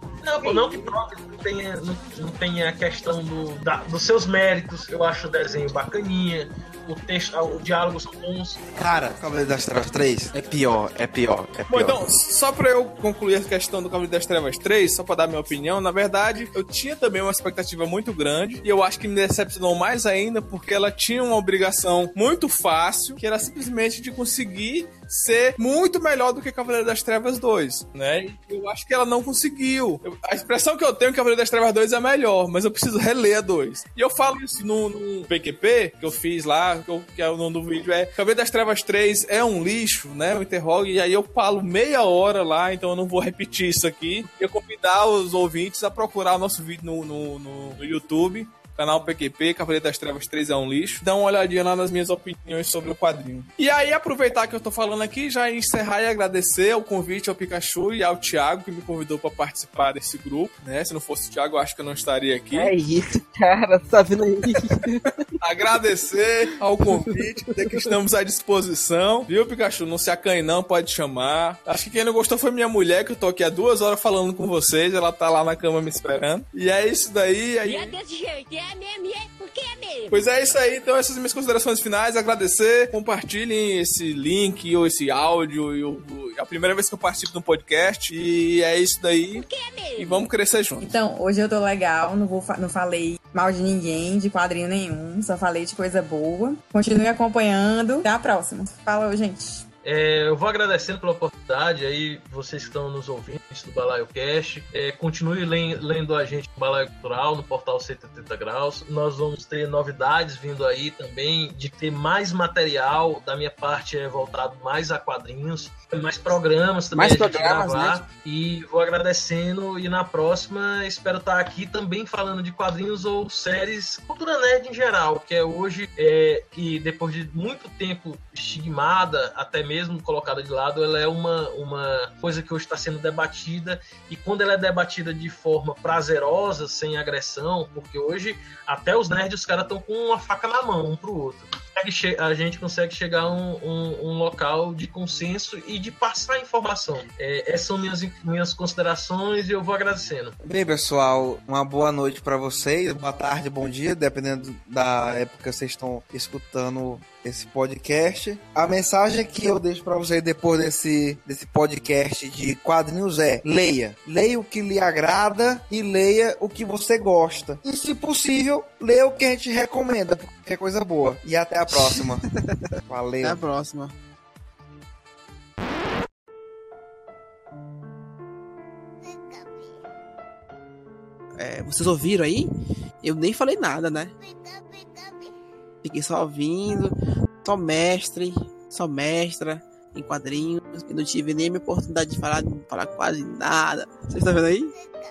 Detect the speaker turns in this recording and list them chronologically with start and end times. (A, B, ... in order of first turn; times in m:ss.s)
0:00.2-0:08.6 A
0:00.4-0:00.8 B
0:08.7-0:12.0 C
0:11.7-1:02.7 D
1:02.5-1:05.2 B
1:05.4-1:18.0 D
1:06.8-1:07.9 B
1:17.6-1:20.5 E
1:20.1-1:31.0 D
1:29.3-1:30.3 E
1:30.8-1:39.6 F
1:39.8-2:30.4 A
1:56.9-1:58.0 B
2:30.4-2:52.2 C
2:51.7-2:53.9 B
2:52.9-2:53.4 C
3:01.4-3:02.5 B
3:03.0-3:04.1 B
3:05.8-3:06.9 B
3:07.4-3:14.7 B